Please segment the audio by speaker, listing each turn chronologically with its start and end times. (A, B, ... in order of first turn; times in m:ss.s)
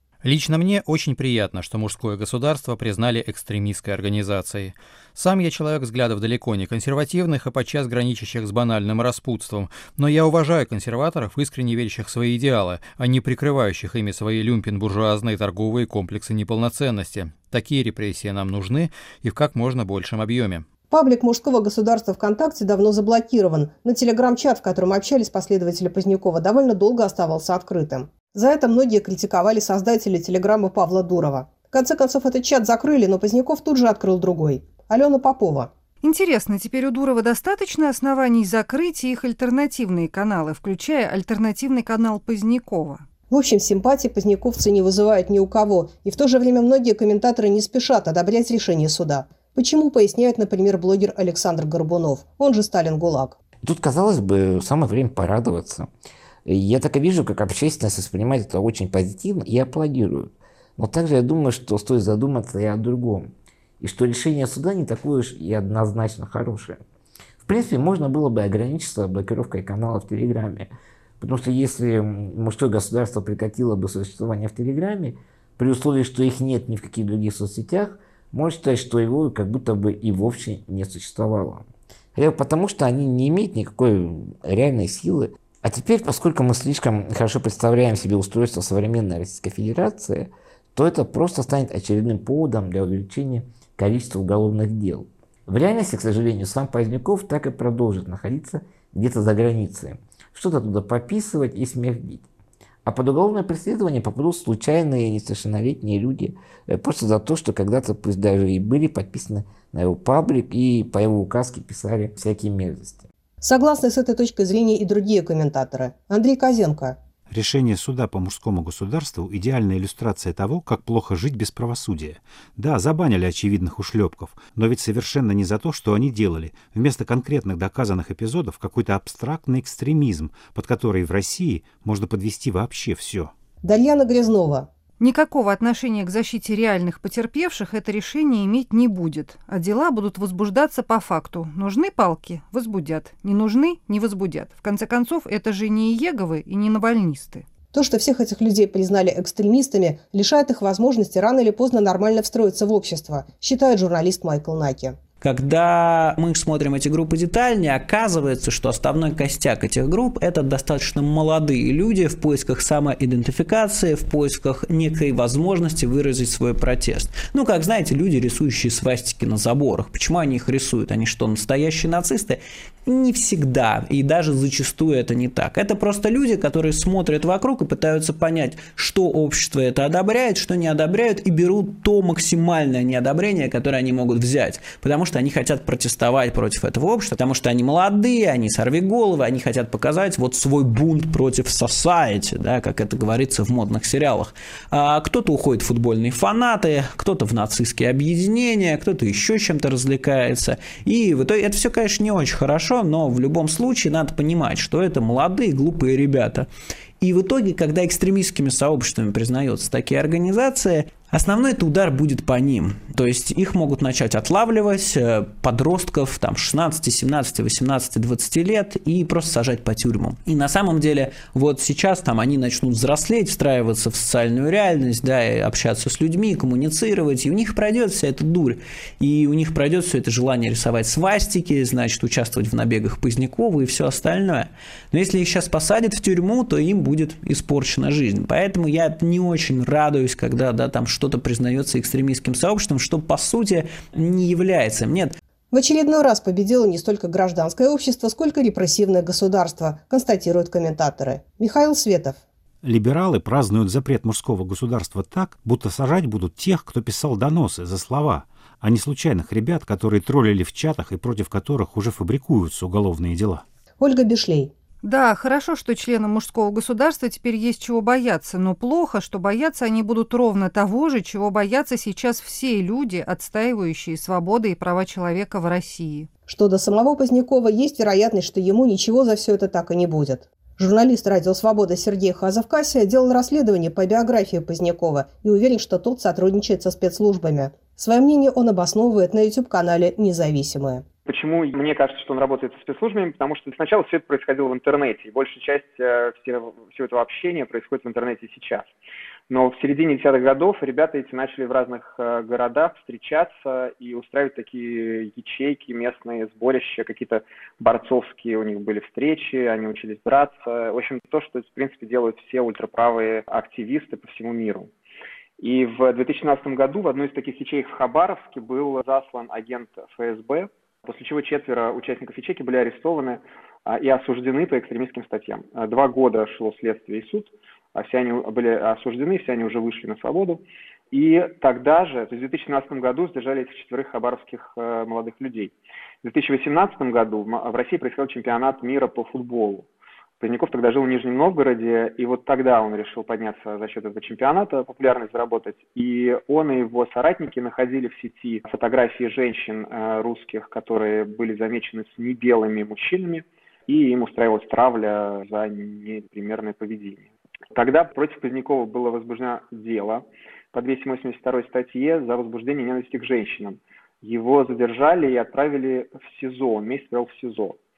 0:00.2-0:20.6 A
0:20.9-0:35.7 B
0:36.0-0:43.0 C
0:43.3-0:53.4 B
0:53.6-0:55.9 D
0:56.4-1:06.8 D
1:07.4-1:42.2 D
1:42.8-1:53.1 D
1:53.4-1:57.0 B
1:57.3-2:13.3 E
2:13.6-2:14.7 B
2:15.0-2:27.4 C
2:27.7-2:35.0 B
2:35.2-3:26.5 F
3:27.0-4:05.2 F
4:05.5-4:12.2 B
4:12.6-4:23.4 E
4:23.8-4:24.5 B
4:24.8-4:36.1 C
4:36.3-4:50.8 B
4:51.0-4:58.7 G
4:59.3-5:14.7 G
5:15.4-5:39.6 G
5:40.2-6:07.6 G